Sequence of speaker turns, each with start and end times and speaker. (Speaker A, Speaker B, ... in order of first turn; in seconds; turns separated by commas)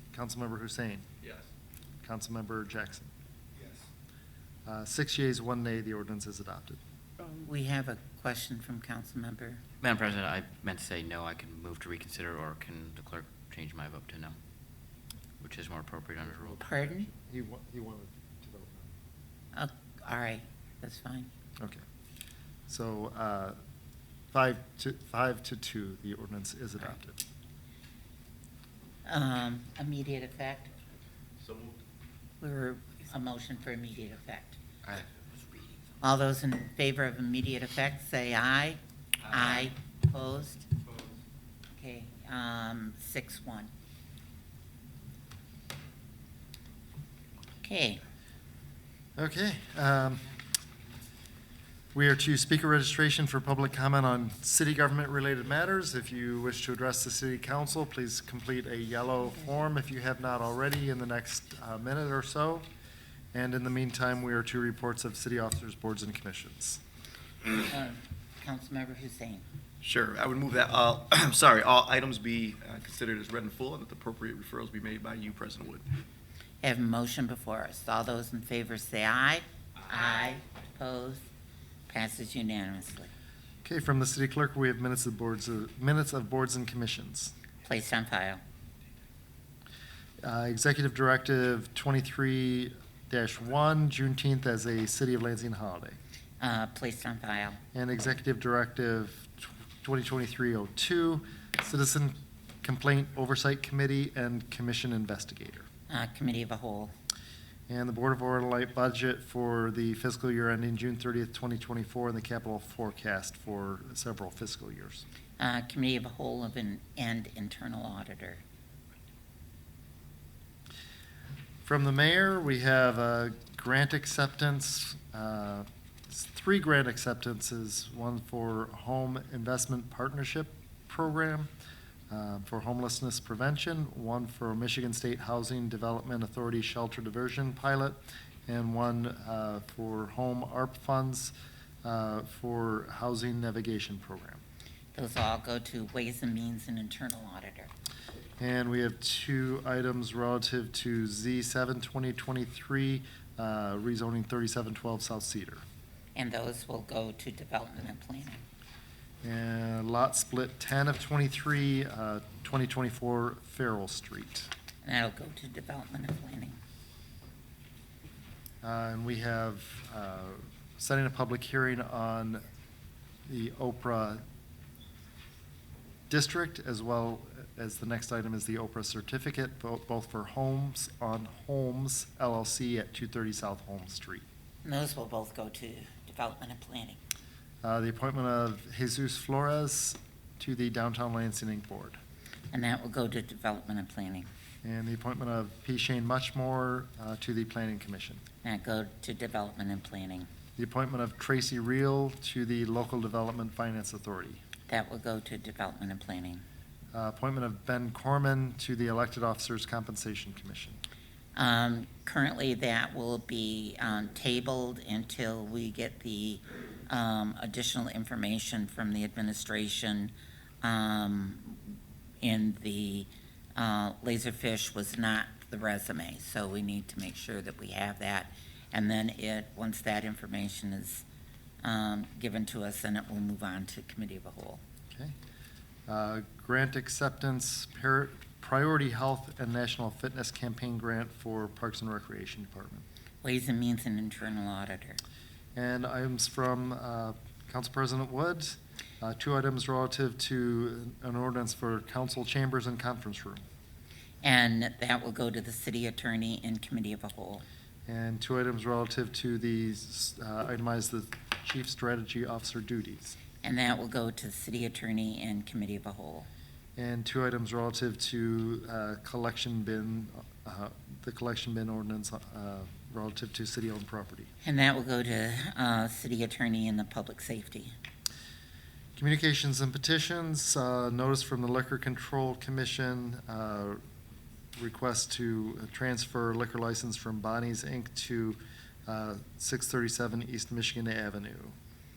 Speaker A: 0.1-1.0, Speaker A: 2.0-3.1, Speaker A: 4.7-6.8, Speaker B: 7.4-9.6, Speaker C: 9.8-14.3, Speaker C: 15.4-16.6, Speaker A: 16.3-18.9, Speaker B: 16.6-17.1, Speaker B: 19.5-21.3, Speaker A: 22.7-23.6, Speaker A: 24.3-27.2, Speaker B: 29.0-30.7, Speaker D: 31.4-31.8, Speaker B: 32.4-34.6, Speaker C: 34.8-35.8, Speaker B: 36.0-40.7, Speaker B: 41.7-43.7, Speaker B: 47.6-48.0, Speaker A: 49.2-50.2, Speaker A: 51.9-62.6, Speaker A: 63.3-66.8, Speaker B: 67.6-69.4, Speaker D: 69.8-75.8, Speaker B: 76.6-81.2, Speaker B: 81.9-83.1, Speaker A: 83.6-87.3, Speaker B: 87.6-88.4, Speaker A: 90.2-96.0, Speaker B: 96.4-97.6, Speaker A: 97.7-105.7, Speaker B: 105.9-106.9, Speaker A: 107.7-115.0, Speaker B: 115.4-118.4, Speaker A: 121.6-131.5, Speaker A: 132.1-144.4, Speaker B: 144.9-147.7, Speaker A: 148.4-155.6, Speaker B: 156.1-158.4, Speaker A: 159.2-164.5, Speaker B: 164.8-166.6, Speaker A: 168.6-172.4, Speaker A: 173.3-174.2, Speaker A: 176.1-184.2, Speaker B: 184.6-187.0, Speaker A: 187.6-192.0, Speaker B: 192.5-194.2, Speaker A: 194.6-198.2, Speaker B: 198.4-200.3, Speaker A: 200.6-204.4, Speaker B: 204.7-206.4, Speaker A: 206.9-210.8, Speaker B: 211.3-231.0, Speaker B: 231.6-234.6, Speaker A: 235.9-242.8, Speaker B: 243.2-245.0, Speaker A: 245.5-253.4, Speaker B: 254.2-257.4, Speaker A: 257.9-263.2, Speaker B: 263.4-266.3, Speaker A: 266.8-274.3, Speaker B: 274.4-277.7, Speaker A: 279.0-283.8, Speaker A: 284.6-291.5